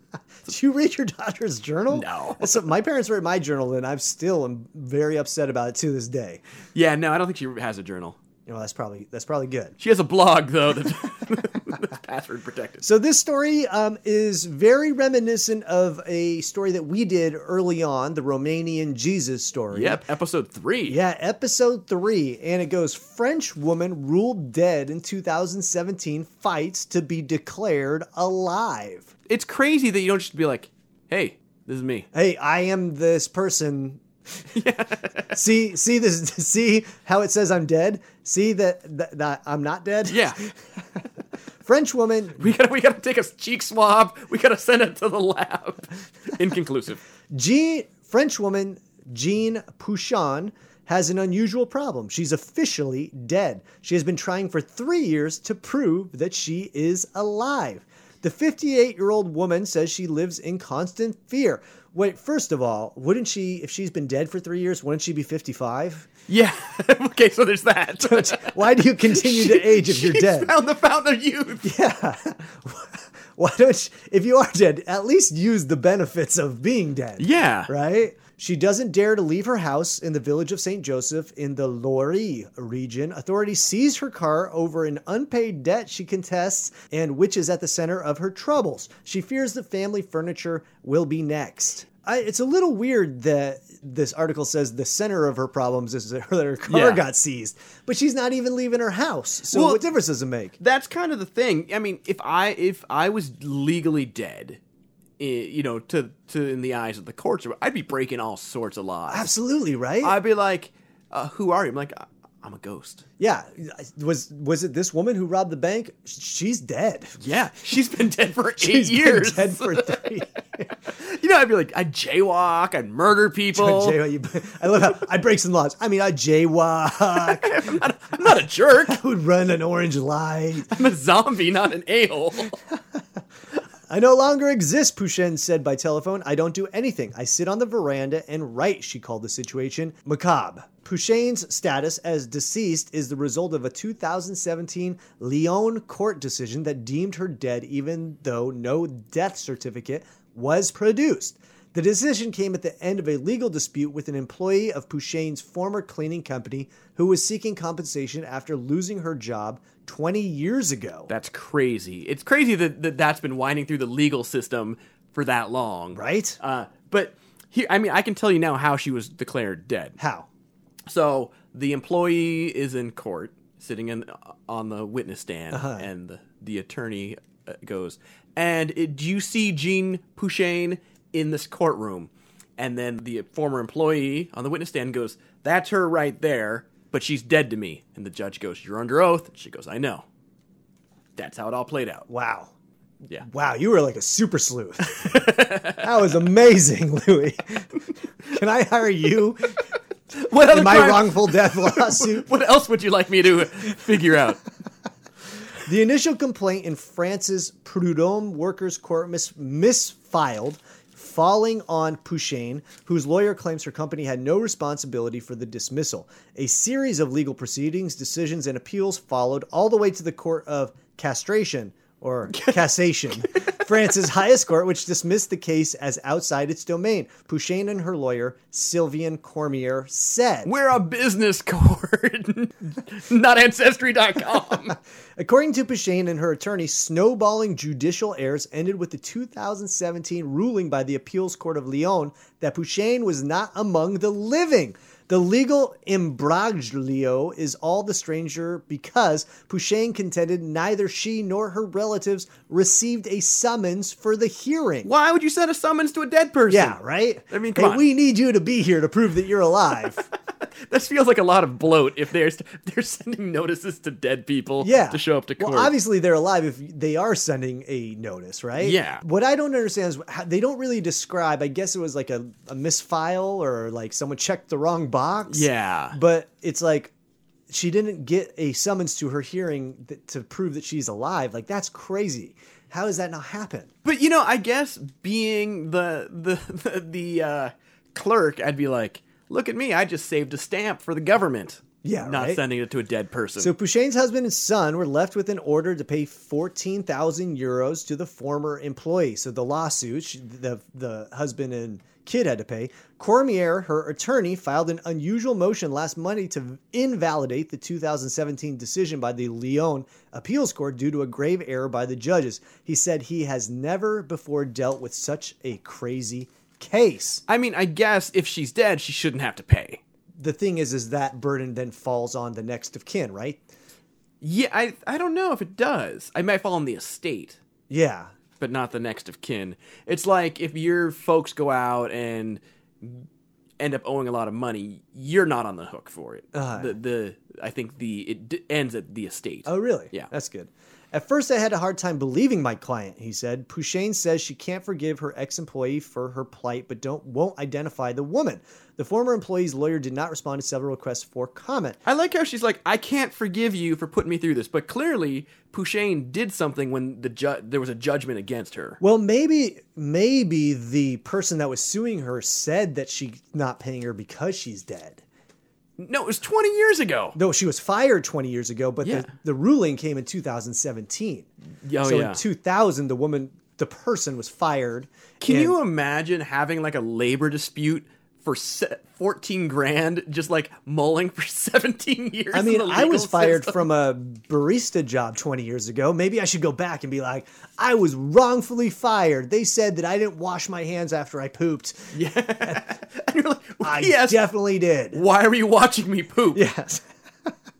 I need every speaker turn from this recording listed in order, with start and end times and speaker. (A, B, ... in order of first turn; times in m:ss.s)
0:00.5-0:06.4 A
0:01.9-0:02.6 B
0:06.8-0:08.2 B
0:08.5-0:09.8 A
0:09.8-0:12.8 B
0:12.8-0:20.0 A
0:19.7-0:21.0 B
0:20.9-0:29.1 A
0:29.3-0:32.1 B
0:32.1-0:34.0 A
0:34.5-0:35.4 B
0:35.3-0:40.6 A
0:40.1-0:40.4 B
0:41.6-0:42.4 A
0:42.4-0:47.0 B
0:47.3-1:06.1 A
1:06.3-1:11.7 B
1:08.0-1:10.5 A
1:11.6-1:40.6 A
1:17.2-1:17.7 B
1:36.7-1:37.0 B
1:39.5-1:39.9 B
1:40.6-1:44.6 B
1:45.2-1:49.3 B
1:49.1-1:50.2 A
1:50.0-1:53.0 B
1:53.2-1:57.2 A
1:57.2-2:00.0 B
1:58.6-2:00.7 A
2:00.9-2:04.0 B
2:03.6-2:10.7 A
2:07.1-2:09.0 B
2:10.7-2:12.6 B
2:13.9-2:41.1 A
2:41.1-2:50.0 B
2:45.9-2:46.4 A
2:50.0-2:50.3 A
2:50.9-3:10.0 B
2:55.5-2:55.9 A
3:11.2-3:12.1 B
3:12.1-3:12.5 A
3:13.2-3:17.7 A
3:14.9-3:15.8 B
3:18.3-3:19.6 A
3:20.1-3:24.4 B
3:20.4-3:22.3 A
3:25.6-3:50.5 A
3:42.3-3:42.6 B
3:50.4-3:54.8 B
3:55.2-4:14.9 A
4:14.8-4:16.8 B
4:16.5-4:20.1 A
4:17.3-4:17.8 B
4:20.7-4:25.8 B
4:24.6-4:36.9 A
4:28.6-4:29.0 B
4:35.3-4:36.0 B
4:37.5-4:43.7 A
4:43.8-4:53.5 B
4:51.8-4:52.4 A
4:53.4-5:17.2 A
5:17.3-5:19.8 B
5:20.2-5:23.4 A
5:24.2-5:27.4 B
5:27.7-5:28.1 A
5:28.4-5:33.1 B
5:33.6-5:40.1 B
5:36.3-5:36.7 A
5:39.5-5:51.8 A
5:51.8-5:58.8 B
5:58.8-6:05.0 A
6:05.8-6:07.2 B
6:07.2-6:11.3 A
6:08.8-6:09.1 B
6:11.6-6:12.2 B
6:11.8-6:15.6 A
6:15.2-6:23.7 B
6:22.3-6:32.0 A
6:31.9-6:34.3 B
6:33.6-6:35.0 A
6:34.9-6:36.4 B
6:36.3-6:36.8 A